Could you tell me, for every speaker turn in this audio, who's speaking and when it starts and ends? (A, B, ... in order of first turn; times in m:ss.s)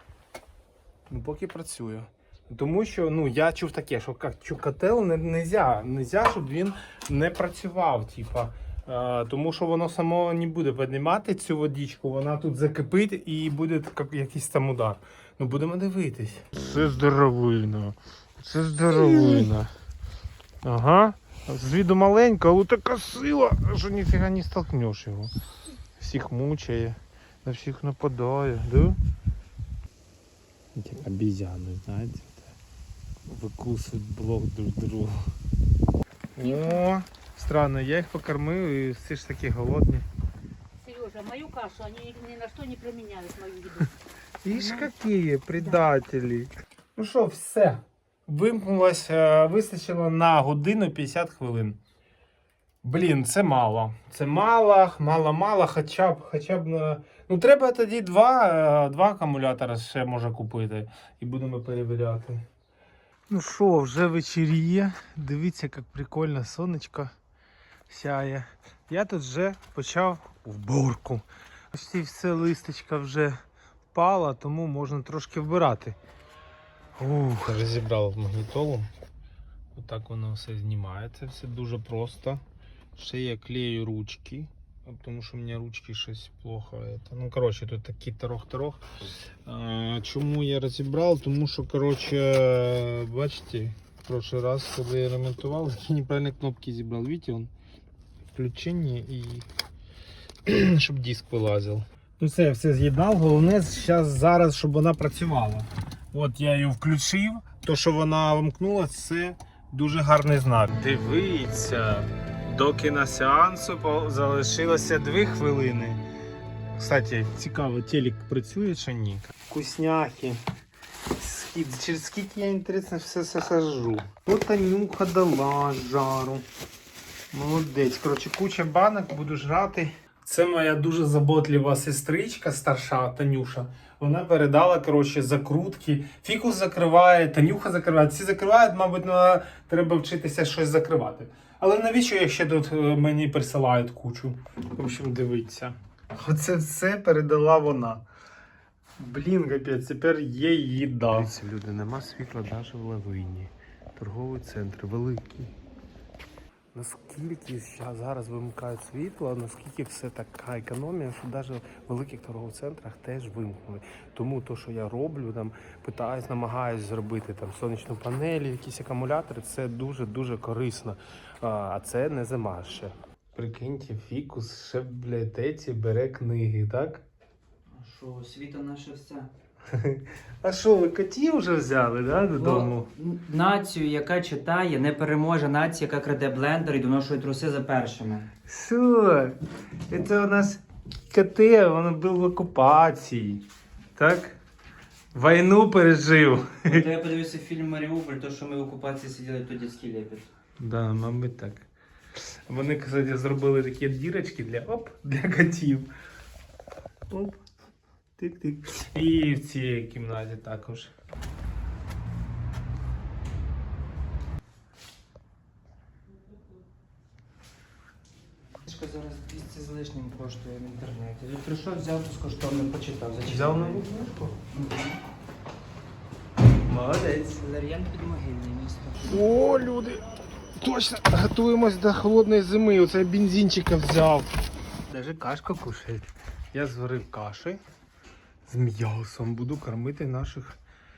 0:01.1-0:19.7 A
0:20.6-0:25.3 A
0:26.0-0:29.0 A
0:30.8-0:32.4 A
0:33.3-0:35.2 A
0:36.4-0:40.0 A
0:36.4-0:36.8 B
0:40.8-0:43.9 B
0:44.4-0:51.8 A
0:44.5-0:44.9 B
0:52.8-1:02.4 A
1:03.3-1:07.1 A
1:07.9-1:13.4 A
1:13.9-1:16.0 A
1:17.0-1:18.9 A
1:19.8-1:22.4 A
1:23.0-1:28.8 A
1:29.5-1:37.5 A
1:38.3-1:39.5 A
1:40.5-1:56.0 A
1:56.8-2:00.4 A
2:01.2-2:06.4 A
2:07.3-2:28.0 A
2:29.0-2:31.3 A
2:31.1-2:35.4 C
2:34.5-2:34.8 A
2:36.7-2:57.0 A
2:57.7-2:59.3 D
2:59.7-3:02.9 A
3:02.4-3:08.3 D
3:08.5-3:09.4 A
3:09.9-3:13.4 A
3:14.0-3:14.4 A
3:15.1-3:16.9 A
3:16.7-3:20.3 D
3:20.6-3:21.7 A
3:22.5-3:25.9 A
3:27.1-3:27.4 A
3:28.2-3:30.9 A
3:38.7-3:43.9 D
3:43.3-3:44.4 A
3:44.4-3:45.0 D
3:46.7-3:49.2 D
3:49.1-3:54.3 A
3:54.9-3:57.6 A
3:58.5-4:00.6 A